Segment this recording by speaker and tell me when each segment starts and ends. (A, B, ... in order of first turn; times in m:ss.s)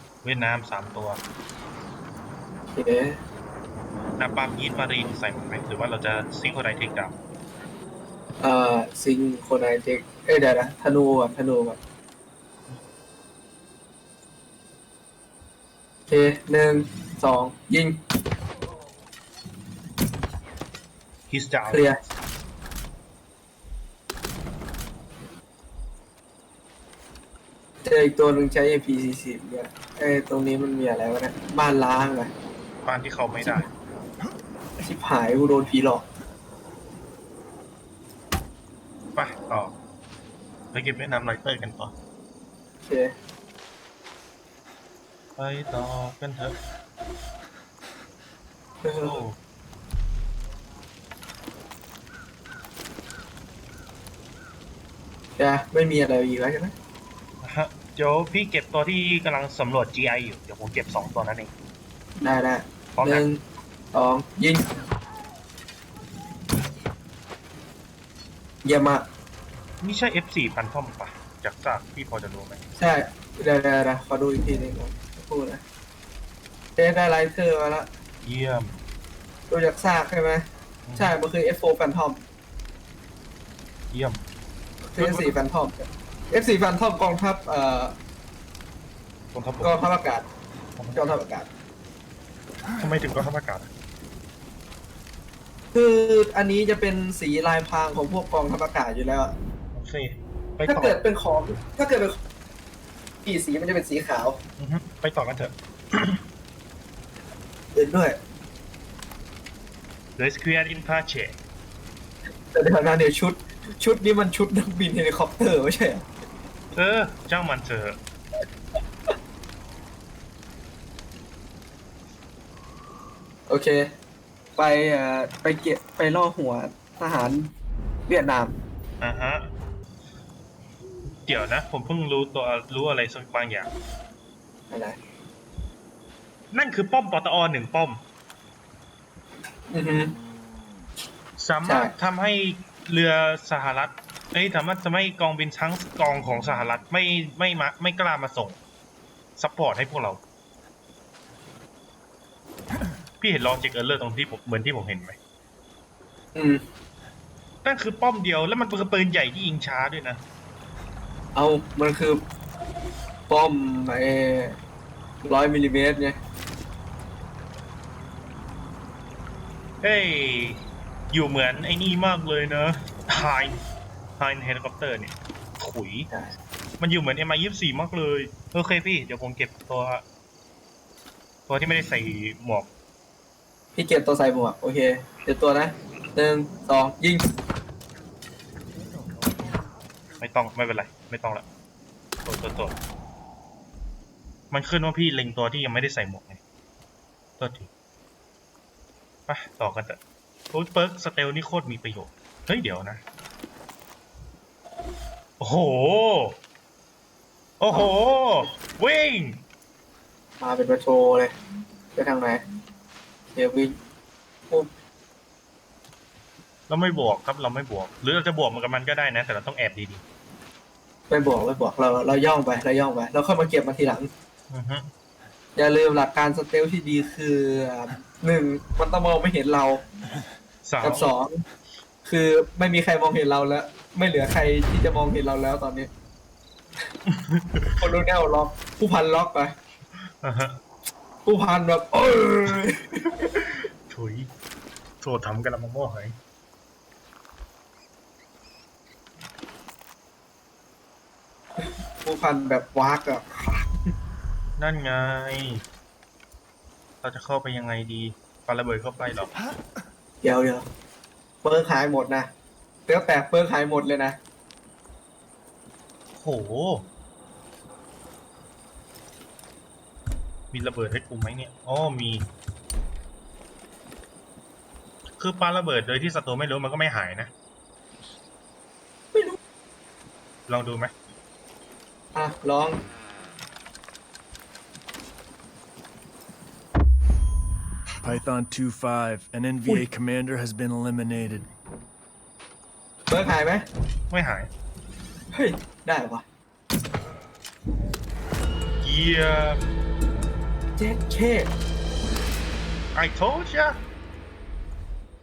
0:00.2-0:01.2 A
0:02.8-0:03.2 B
0:04.2-0:07.2 A
0:08.4-0:11.8 B
0:16.1-0:18.0 B
0:21.3-0:22.1 A
0:21.7-0:22.0 B
0:27.8-0:32.3 B
0:32.8-0:33.7 A
0:34.8-0:36.1 B
0:39.2-0:39.7 A
0:40.7-0:41.9 A
0:42.9-0:43.1 B
0:45.4-0:46.6 A
0:48.8-0:49.2 B
0:49.0-0:49.4 A
0:55.4-0:56.7 B
0:57.4-1:01.5 A
1:02.2-1:03.4 B
1:03.0-1:03.2 A
1:03.9-1:04.7 B
1:08.6-1:09.1 B
1:09.8-1:12.6 A
1:12.8-1:15.6 B
1:16.8-1:17.9 B
1:18.2-1:18.8 A
1:19.5-1:20.4 B
1:20.9-1:21.2 A
1:21.0-1:22.2 B
1:23.9-1:24.2 A
1:24.8-1:28.0 B
1:25.0-1:25.4 A
1:29.3-1:29.8 A
1:29.6-1:30.3 B
1:30.8-1:31.2 A
1:31.0-1:31.5 B
1:32.8-1:33.7 A
1:35.7-1:39.4 B
1:39.7-1:41.0 A
1:40.6-1:42.2 B
1:43.2-1:44.4 B
1:44.6-1:46.2 A
1:47.7-1:48.2 B
1:50.2-1:51.4 A
1:52.5-1:56.0 B
1:56.8-1:58.0 A
2:03.5-2:03.9 B
2:04.6-2:07.5 B
2:08.1-2:08.6 B
2:09.0-2:09.5 A
2:11.1-2:13.7 A
2:14.7-2:15.0 B
2:16.5-2:18.0 A
2:19.7-2:20.1 B
2:21.4-2:28.6 A
2:21.6-2:21.9 B
2:29.4-2:30.2 A
2:33.2-2:35.2 A
2:36.4-2:36.6 B
2:37.6-2:40.2 A
2:41.4-2:42.2 B
2:43.3-2:44.6 B
2:45.2-2:46.2 B
2:49.8-2:53.6 A
2:54.2-2:56.1 A
2:56.8-3:00.0 A
3:01.5-3:02.7 A
3:03.8-3:07.3 B
3:10.2-3:11.4 A
3:12.2-3:12.8 A
3:14.5-3:16.4 A
3:17.4-3:17.7 A
3:19.3-3:20.0 A
3:20.5-3:23.0 A
3:25.4-3:26.4 A
3:27.6-3:29.4 A
3:30.4-3:31.3 B
3:32.0-3:32.4 B
3:33.4-3:33.8 B
3:36.7-3:40.0 A
3:41.1-3:44.1 B
3:44.5-3:44.9 A
3:45.6-3:49.8 B
3:50.6-3:51.1 A
3:50.8-3:51.4 B
3:52.0-3:55.9 B
3:57.1-3:57.8 A
3:57.8-3:59.6 B
4:00.2-4:00.6 A
4:01.2-4:03.3 B
4:03.4-4:04.3 A
4:05.0-4:06.2 A
4:12.0-4:13.7 B
4:14.6-4:15.6 A
4:17.0-4:19.3 A
4:20.2-4:20.7 B
4:21.4-4:22.3 B
4:22.9-4:24.2 B
4:26.2-4:26.9 A
4:30.5-4:32.3 A
4:35.2-4:37.3 A
4:40.5-4:40.9 A
4:42.1-4:42.8 B
4:48.0-4:51.5 C
4:53.1-4:53.7 B
4:54.1-4:54.5 A
4:55.3-4:56.2 B
4:58.8-4:59.6 A
5:00.8-5:01.5 B
5:02.9-5:03.8 A